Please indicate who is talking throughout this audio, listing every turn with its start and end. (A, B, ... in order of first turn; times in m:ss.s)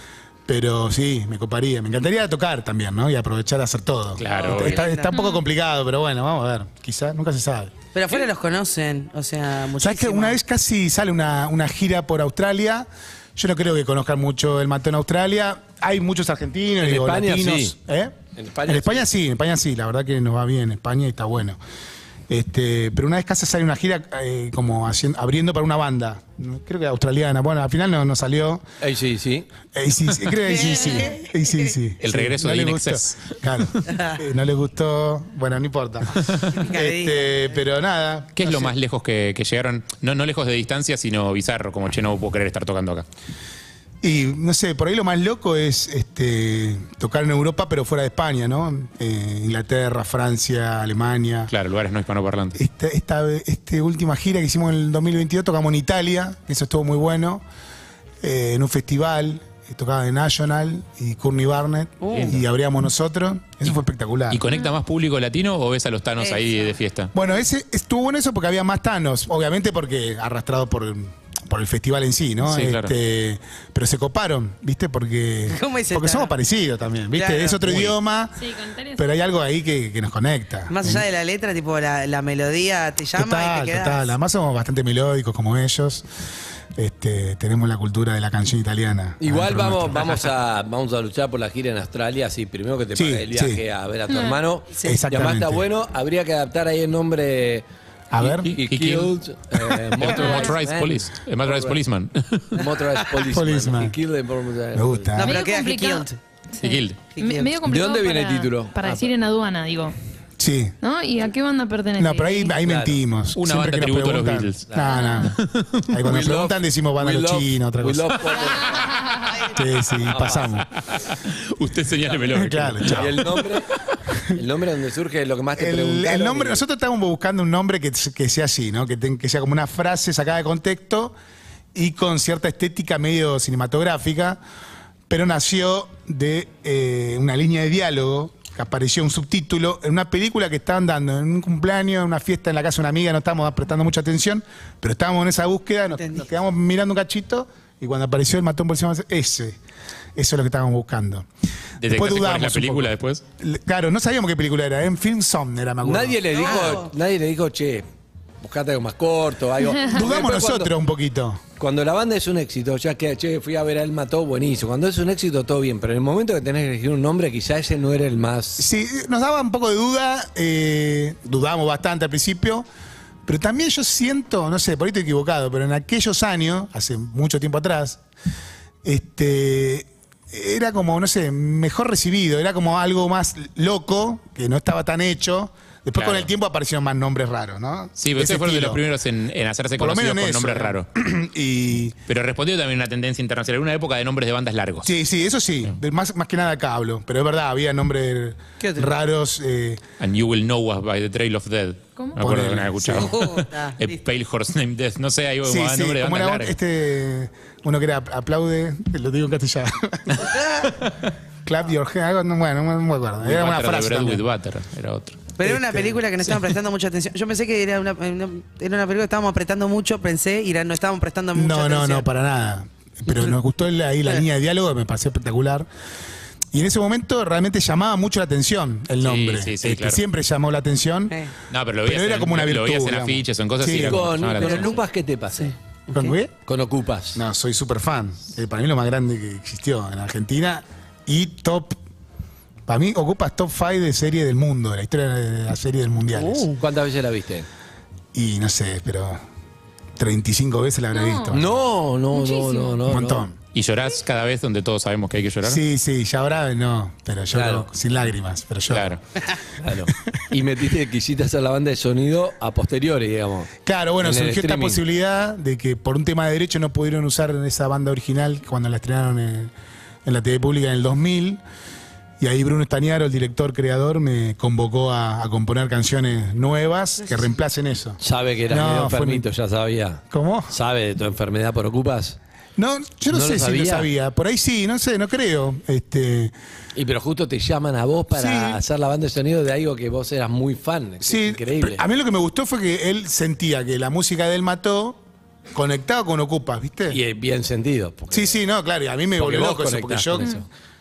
0:00.5-0:07.7 A
0:04.2-0:04.9 B
0:04.4-0:05.2 C
0:05.1-0:05.4 D
0:07.9-0:10.4 C
0:09.8-0:21.6 A
0:16.8-0:17.7 E
0:18.4-0:19.1 E
0:22.3-0:28.6 A
0:28.8-0:29.5 E
0:29.7-0:38.7 A
0:30.4-0:31.7 C
0:32.0-0:33.8 B
0:33.9-0:34.2 C
0:36.5-0:37.5 C
0:38.4-0:43.0 B
0:44.0-0:51.5 A
0:51.5-0:52.6 B
0:52.5-0:57.4 A
0:58.2-1:04.4 A
1:02.0-1:02.4 C
1:02.1-1:02.4 B
1:04.3-1:07.1 B
1:06.2-1:06.7 C
1:07.1-1:21.0 A
1:12.4-1:12.9 B
1:15.5-1:16.3 C
1:17.2-1:17.6 C
1:17.7-1:17.9 B
1:18.4-1:19.0 D
1:20.7-1:24.1 C
1:23.2-1:26.0 A
1:26.8-1:30.3 A
1:29.2-1:37.6 E
1:32.9-1:33.6 A
1:34.1-1:34.4 D
1:34.8-1:35.6 A
1:38.1-1:38.5 A
1:38.2-1:41.8 E
1:38.4-1:42.6 B
1:40.1-1:40.5 D
1:42.5-1:45.1 E
1:43.3-1:44.0 A
1:44.7-1:45.4 A
1:45.2-1:46.2 C
1:45.2-1:50.0 D
1:46.6-1:47.0 B
1:47.1-1:47.5 C
1:47.6-1:49.1 E
1:50.4-1:50.7 A
1:50.8-1:52.6 D
1:52.0-1:55.4 A
1:52.6-1:53.0 E
1:53.4-1:56.0 B
1:54.8-1:55.3 D
1:55.9-1:58.3 A
1:56.0-1:58.9 E
1:59.4-2:00.6 A
2:00.1-2:00.6 E
2:00.3-2:03.9 B
2:02.3-2:03.3 A
2:02.9-2:03.7 E
2:04.3-2:06.6 E
2:05.6-2:11.1 A
2:11.7-2:14.4 A
2:15.1-2:29.6 A
2:30.2-2:31.3 A
2:31.8-2:33.2 B
2:31.8-2:36.8 A
2:35.8-2:37.8 E
2:36.3-2:36.9 C
2:38.4-2:40.7 E
2:39.8-2:41.4 A
2:41.6-2:48.6 E
2:48.6-2:52.6 A
2:53.2-2:58.0 A
2:58.8-3:08.8 A
3:06.0-3:06.3 B
3:08.0-3:10.9 B
3:09.8-3:12.0 A
3:12.1-3:14.9 B
3:14.8-3:19.8 A
3:18.6-3:18.9 C
3:20.0-3:26.6 B
3:22.2-3:23.2 A
3:22.9-3:24.0 C
3:25.4-3:30.3 A
3:31.4-3:34.2 A
3:33.2-3:35.3 B
3:35.4-3:42.0 C
3:35.4-3:36.0 A
3:41.3-3:45.7 A
3:46.5-3:51.2 A
3:49.0-3:50.0 B
3:51.5-3:54.8 B
3:51.8-3:54.2 A
3:53.7-3:55.5 E
3:54.4-3:54.8 C
3:55.4-3:56.1 C
3:55.9-3:56.3 A
3:56.4-3:57.2 E
3:57.1-4:01.8 A
4:02.7-4:06.5 A
4:06.2-4:06.6 C
4:06.5-4:07.5 E
4:08.1-4:09.2 A
4:10.0-4:11.6 A
4:10.9-4:11.3 D
4:11.3-4:13.3 E
4:12.1-4:12.8 D
4:12.9-4:13.4 A
4:13.5-4:15.6 B
4:15.4-4:18.9 A
4:17.3-4:17.7 E
4:18.7-4:19.0 B
4:19.6-4:23.5 E
4:23.6-4:29.5 A
4:24.0-4:24.8 E
4:30.0-4:31.4 A
4:32.2-4:39.3 A
4:38.0-4:42.2 E
4:40.1-4:40.5 A
4:42.6-4:46.3 A
4:43.1-4:43.9 E
4:46.8-4:51.8 E
4:48.1-4:48.6 A
4:51.0-4:55.0 A
4:55.5-4:57.0 A
4:56.9-4:58.4 E
4:58.1-5:00.4 A
4:59.2-5:00.4 E